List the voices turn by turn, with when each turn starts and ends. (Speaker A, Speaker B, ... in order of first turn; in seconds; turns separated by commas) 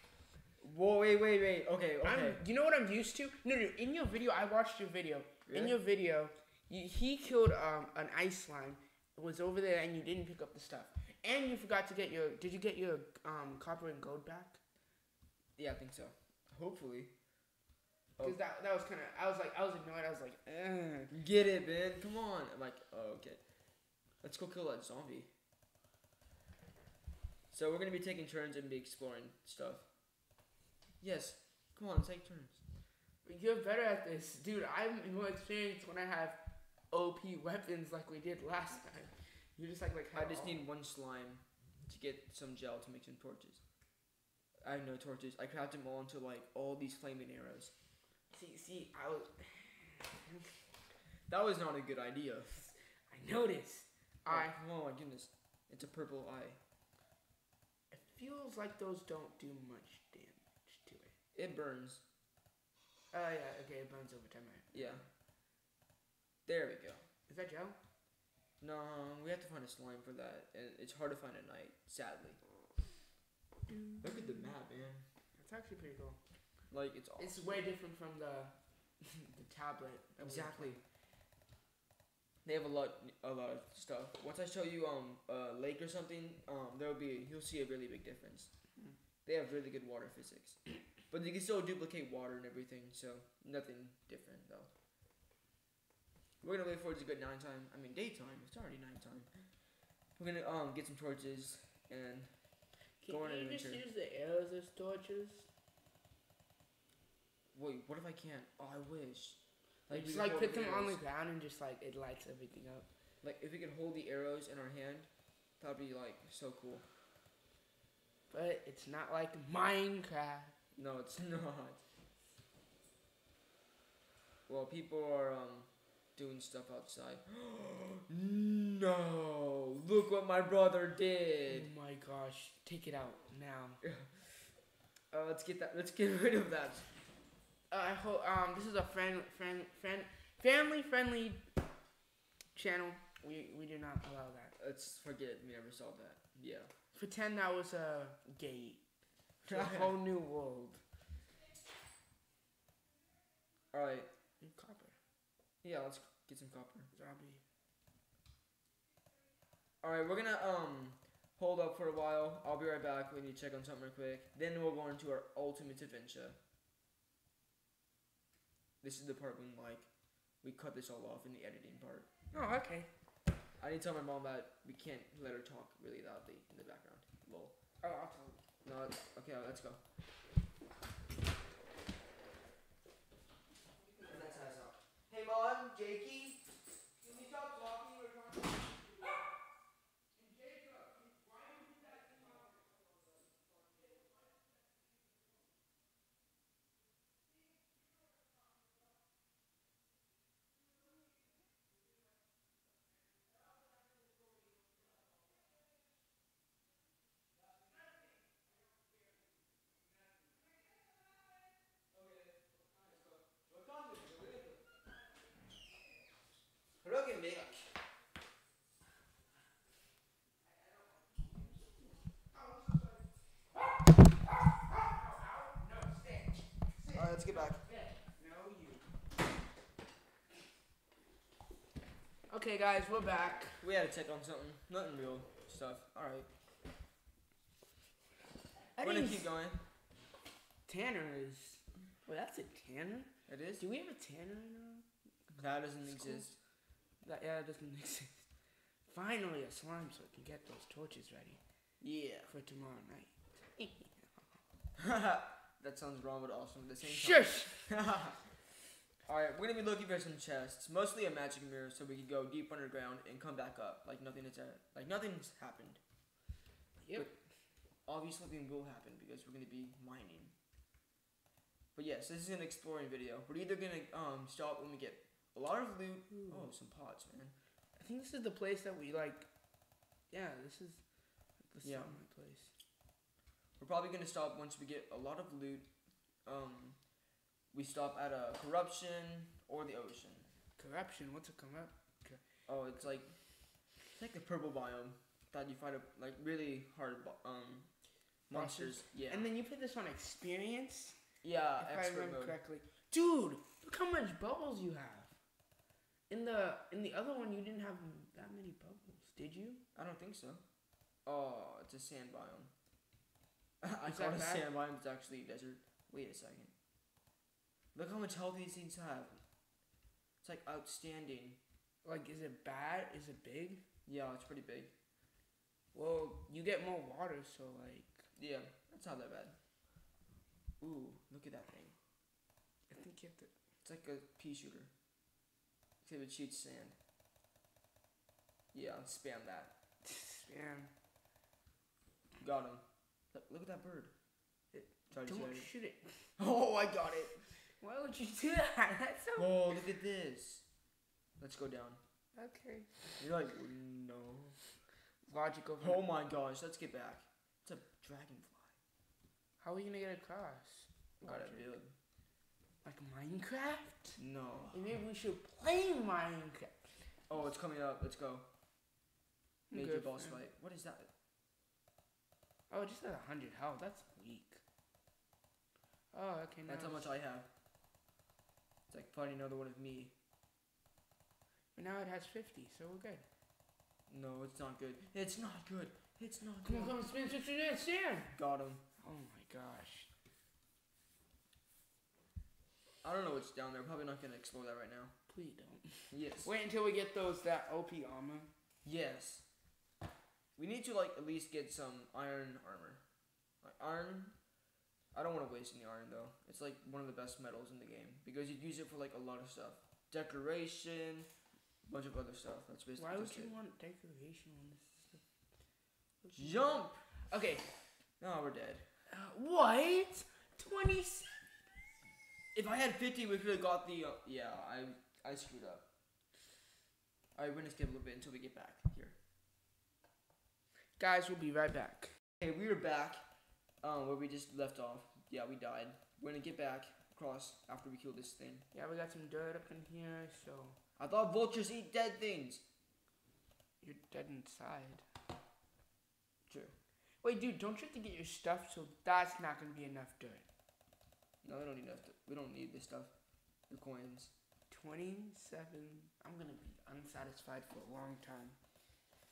Speaker A: 0.6-2.4, Speaker B: 2.0-14.6, Speaker A: 5.5-5.8, Speaker A: 15.6-17.1, Speaker B: 18.2-21.1, Speaker A: 21.1-23.4, Speaker A: 24.2-25.3, Speaker A: 27.5-29.9, Speaker A: 31.0-32.6, Speaker B: 33.2-40.6, Speaker A: 40.1-43.6, Speaker A: 44.6-47.7, Speaker B: 48.3-50.7, Speaker A: 51.3-52.7, Speaker B: 53.1-54.5, Speaker A: 54.3-56.6, Speaker B: 57.9-61.1, Speaker A: 61.3-62.0, Speaker B: 63.1-65.0, Speaker A: 64.7-65.0, Speaker A: 66.5-67.0, Speaker B: 67.3-67.8, Speaker A: 68.6-72.4, Speaker B: 73.7-74.5, Speaker A: 74.0-75.0, Speaker B: 75.3-76.2, Speaker A: 76.7-77.7, Speaker B: 77.2-80.8, Speaker A: 80.2-80.8, Speaker A: 82.4-88.5, Speaker A: 89.2-94.7, Speaker A: 96.4-99.5, Speaker A: 100.2-102.4, Speaker B: 103.0-105.5, Speaker A: 103.1-103.8, Speaker A: 107.5-111.0, Speaker B: 109.9-112.9, Speaker A: 113.2-116.9, Speaker B: 118.3-120.5, Speaker A: 120.7-121.8, Speaker A: 124.5-131.7, Speaker B: 131.5-133.8, Speaker A: 133.8-134.3, Speaker A: 135.1-136.9, Speaker B: 137.7-141.4, Speaker B: 142.5-144.5, Speaker A: 144.6-146.7, Speaker B: 146.9-148.8, Speaker B: 149.4-150.8, Speaker A: 149.5-149.9, Speaker A: 153.7-154.1, Speaker B: 154.4-155.0, Speaker A: 155.6-156.9, Speaker B: 156.9-157.4, Speaker A: 159.8-166.4, Speaker A: 168.8-169.9, Speaker A: 170.4-172.1, Speaker B: 172.3-172.9, Speaker A: 173.6-177.6, Speaker B: 177.8-178.4, Speaker A: 178.6-179.8, Speaker B: 183.9-184.4, Speaker A: 184.0-186.4, Speaker A: 187.0-188.5, Speaker B: 190.2-192.5, Speaker A: 211.9-214.6, Speaker A: 216.8-217.7, Speaker B: 220.4-228.9, Speaker A: 226.9-227.6, Speaker B: 232.3-233.6, Speaker A: 233.6-236.3, Speaker B: 238.8-239.3, Speaker A: 238.8-239.6, Speaker B: 240.7-244.8, Speaker A: 243.3-243.6, Speaker A: 245.3-246.4, Speaker B: 245.8-246.2, Speaker B: 247.0-248.2, Speaker B: 248.8-251.4, Speaker A: 251.8-252.3, Speaker B: 252.3-254.4, Speaker A: 254.8-258.2, Speaker B: 256.8-257.7, Speaker A: 259.1-265.8, Speaker B: 266.8-267.1, Speaker A: 267.9-270.3, Speaker A: 271.7-277.3, Speaker B: 277.8-279.3, Speaker B: 280.1-280.8, Speaker B: 281.5-282.5, Speaker A: 281.6-281.9, Speaker A: 283.6-285.7, Speaker A: 286.2-286.8, Speaker A: 287.5-290.3, Speaker B: 290.6-292.2, Speaker A: 292.5-293.1, Speaker A: 293.9-297.7, Speaker A: 298.3-299.3, Speaker B: 298.3-301.0, Speaker A: 301.2-302.4, Speaker B: 301.6-305.1, Speaker B: 306.1-309.6, Speaker A: 309.7-310.4, Speaker A: 311.1-312.5, Speaker A: 313.6-316.5, Speaker B: 313.8-314.5, Speaker A: 317.7-319.2, Speaker A: 320.2-321.4, Speaker B: 321.8-323.6, Speaker A: 323.9-324.7, Speaker B: 325.7-328.0, Speaker A: 328.1-329.4, Speaker A: 330.6-331.8, Speaker B: 332.7-333.3, Speaker A: 333.6-334.7, Speaker A: 335.8-336.8, Speaker A: 338.5-339.5, Speaker B: 339.8-340.7, Speaker A: 342.2-343.9, Speaker B: 344.5-346.1, Speaker A: 344.9-345.5, Speaker A: 346.2-347.3, Speaker B: 347.6-349.6, Speaker A: 349.2-350.4, Speaker A: 351.2-351.8, Speaker B: 352.1-353.1, Speaker A: 353.0-354.4, Speaker B: 355.1-355.8, Speaker A: 355.6-358.5, Speaker B: 359.4-361.5, Speaker A: 361.0-361.7, Speaker B: 362.6-364.0, Speaker A: 364.0-364.6, Speaker B: 364.5-366.8, Speaker A: 367.1-368.2, Speaker B: 369.5-370.2, Speaker A: 369.5-370.9, Speaker B: 372.5-374.4, Speaker B: 375.9-376.9, Speaker A: 376.5-377.3, Speaker A: 378.7-379.9, Speaker B: 381.5-383.0, Speaker A: 383.9-386.9, Speaker B: 386.4-388.2, Speaker A: 388.1-388.6, Speaker B: 388.8-389.9, Speaker A: 392.8-394.9, Speaker B: 395.1-398.3, Speaker A: 395.9-396.3, Speaker A: 398.6-399.2, Speaker A: 400.4-402.8, Speaker A: 403.4-404.1, Speaker A: 404.9-411.1, Speaker A: 411.7-413.3, Speaker B: 412.8-415.0, Speaker B: 416.0-417.4, Speaker A: 416.1-416.9, Speaker A: 418.0-418.6, Speaker B: 418.9-421.5, Speaker A: 422.3-425.6, Speaker A: 427.1-428.9, Speaker B: 430.8-431.9, Speaker A: 432.2-433.0, Speaker A: 433.6-438.4, Speaker B: 438.5-440.6, Speaker A: 440.8-442.4, Speaker B: 443.6-444.8, Speaker A: 446.3-446.5, Speaker B: 447.0-450.2, Speaker A: 451.2-452.9, Speaker A: 453.5-454.1, Speaker B: 454.5-458.4